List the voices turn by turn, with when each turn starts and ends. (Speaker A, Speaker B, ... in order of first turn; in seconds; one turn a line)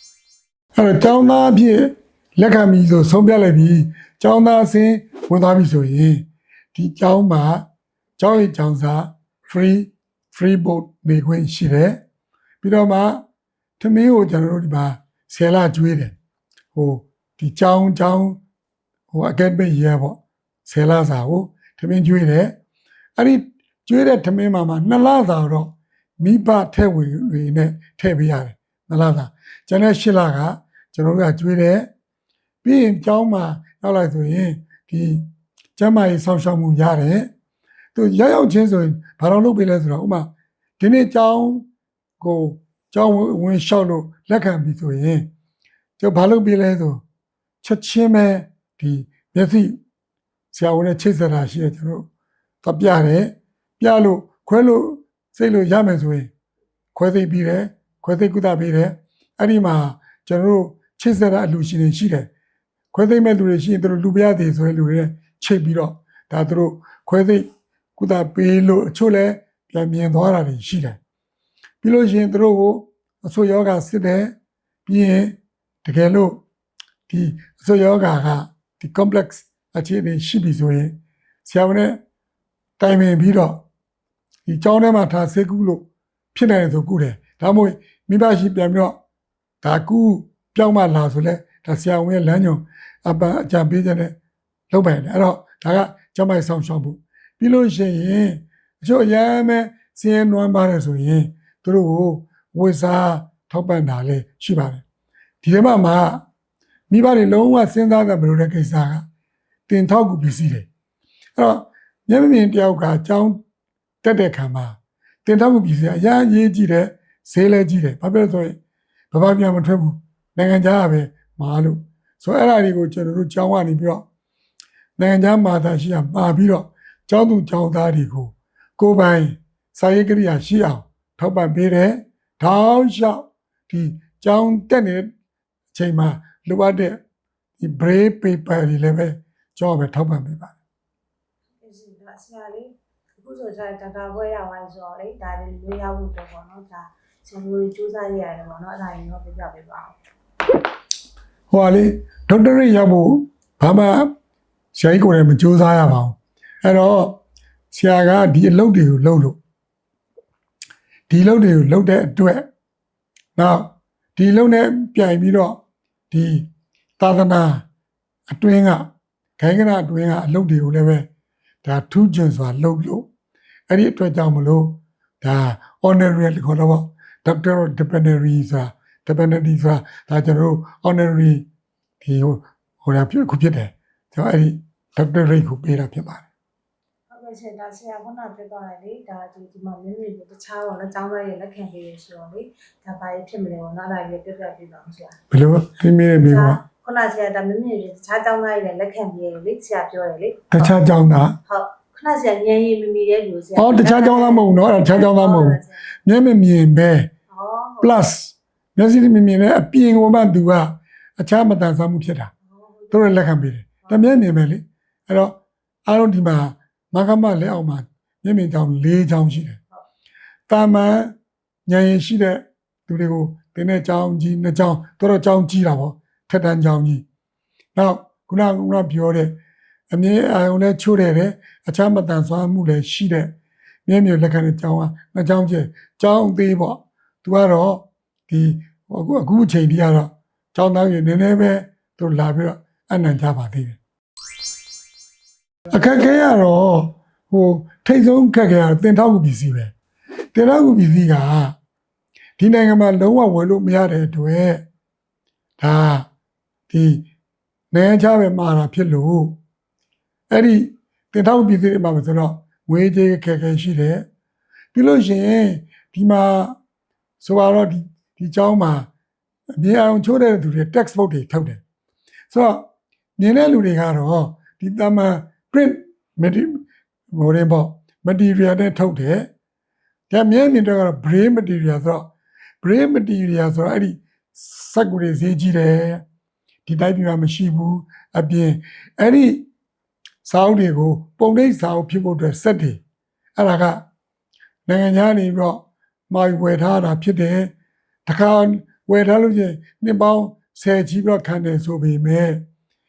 Speaker A: 0.7-7.7
Speaker A: 8.2-12.0
Speaker A: 12.6-13.2
Speaker A: 13.8-16.2
Speaker A: 16.7-18.4
Speaker A: 19.1-22.6
Speaker A: 23.1-31.9
Speaker A: 32.6-37.3
Speaker A: 37.9-41.6
Speaker A: 42.2-45.3
Speaker A: 46.0-47.0
Speaker A: 47.6-49.8
Speaker A: 50.5-52.1
Speaker A: 52.6-56.3
Speaker A: 56.9-62.3
Speaker A: 62.9-71.0
Speaker A: 71.8-74.3
Speaker A: 74.8-76.4
Speaker A: 77.1-82.0
Speaker A: 82.8-83.6
Speaker A: 84.5-89.0
Speaker A: 89.6-94.2
Speaker A: 94.7-104.8
Speaker A: 105.4-106.2
Speaker A: 106.9-109.0
Speaker A: 109.7-110.7
Speaker A: 111.3-113.4
Speaker A: 114.0-118.6
Speaker A: 119.1-124.0
Speaker A: 125.0-135.1
Speaker A: 135.7-137.0
Speaker A: 137.6-140.6
Speaker B: 141.6-149.9
Speaker A: 151.5-154.1
Speaker A: 154.7-157.2
Speaker A: 157.7-159.4
Speaker A: 161.1-162.4
Speaker A: 163.3-165.6
Speaker A: 166.1-166.5
Speaker A: 167.0-167.7
Speaker A: 168.3-171.1
Speaker A: 171.6-173.1
Speaker A: 173.7-181.4
Speaker A: 182.0-186.3
Speaker B: 187.1-195.2
Speaker A: 195.3-196.6
Speaker B: 196.2-200.4
Speaker A: 200.5-201.4
Speaker B: 201.4-205.9
Speaker A: 203.6-207.1
Speaker B: 207.3-207.9
Speaker A: 207.8-212.3
Speaker B: 212.5-213.2
Speaker A: 212.9-219.6
Speaker A: 220.5-221.1
Speaker A: 221.7-227.0
Speaker A: 227.7-229.3
Speaker A: 229.9-233.3
Speaker A: 233.8-243.8
Speaker A: 245.7-249.7
Speaker A: 250.3-251.6
Speaker A: 252.4-254.6
Speaker A: 255.6-256.1
Speaker A: 256.7-257.1
Speaker A: 257.7-259.4
Speaker A: 260.3-264.0
Speaker A: 264.7-266.6
Speaker A: 267.2-268.9
Speaker A: 269.5-271.6
Speaker A: 272.3-272.7
Speaker A: 273.2-279.3
Speaker A: 280.1-282.1
Speaker A: 282.6-286.0
Speaker A: 286.6-289.5
Speaker A: 290.2-292.8
Speaker A: 293.4-293.8
Speaker A: 294.7-297.5
Speaker A: 298.1-302.4